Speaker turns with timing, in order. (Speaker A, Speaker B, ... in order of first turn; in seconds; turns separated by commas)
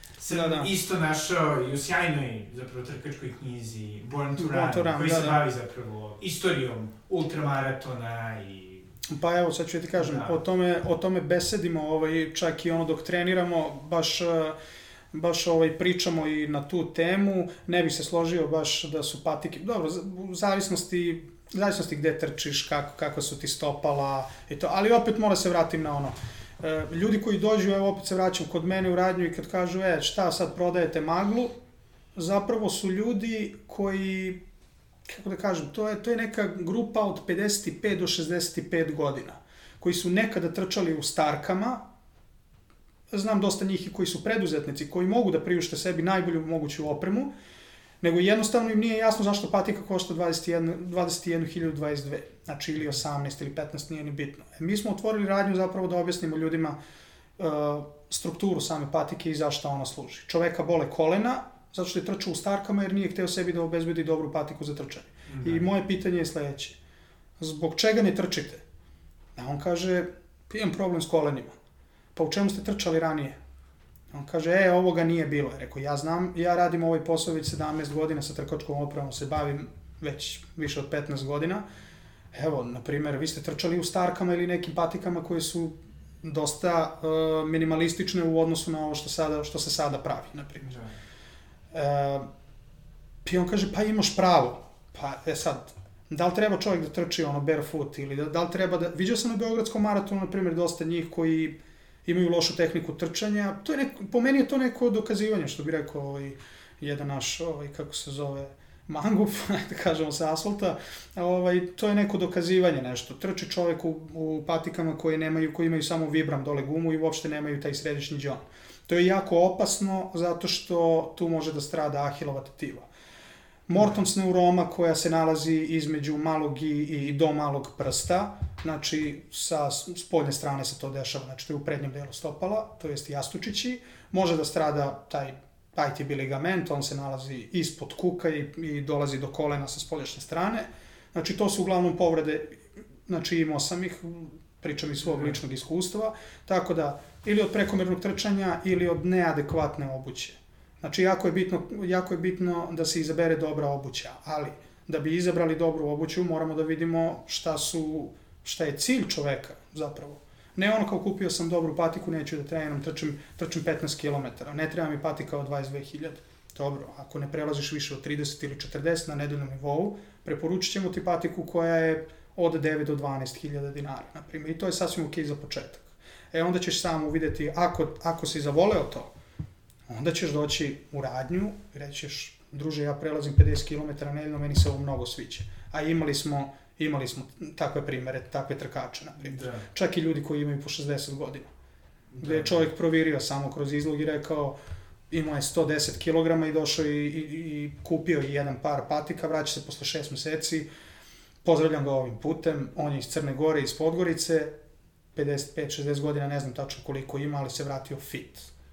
Speaker A: 0.2-8.8, Speaker B: 0.3-0.7, Speaker B: 4.4-5.4, Speaker B: 9.1-14.6, Speaker A: 10.0-10.4, Speaker B: 15.1-31.5, Speaker B: 32.2-34.4, Speaker B: 35.1-41.8, Speaker B: 43.1-47.3, Speaker B: 48.0-56.8, Speaker B: 57.4-66.8, Speaker A: 65.3-65.7, Speaker B: 67.4-68.6, Speaker B: 69.4-71.5, Speaker B: 72.2-73.4, Speaker B: 74.1-81.6, Speaker B: 82.3-90.7, Speaker A: 90.6-91.0, Speaker B: 91.7-92.3, Speaker B: 93.2-122.9, Speaker B: 123.7-179.1, Speaker A: 145.0-145.4, Speaker B: 179.9-191.5, Speaker A: 189.2-189.6, Speaker A: 192.1-192.7, Speaker B: 192.2-194.6, Speaker B: 195.1-200.7, Speaker B: 201.4-204.5, Speaker B: 205.2-208.5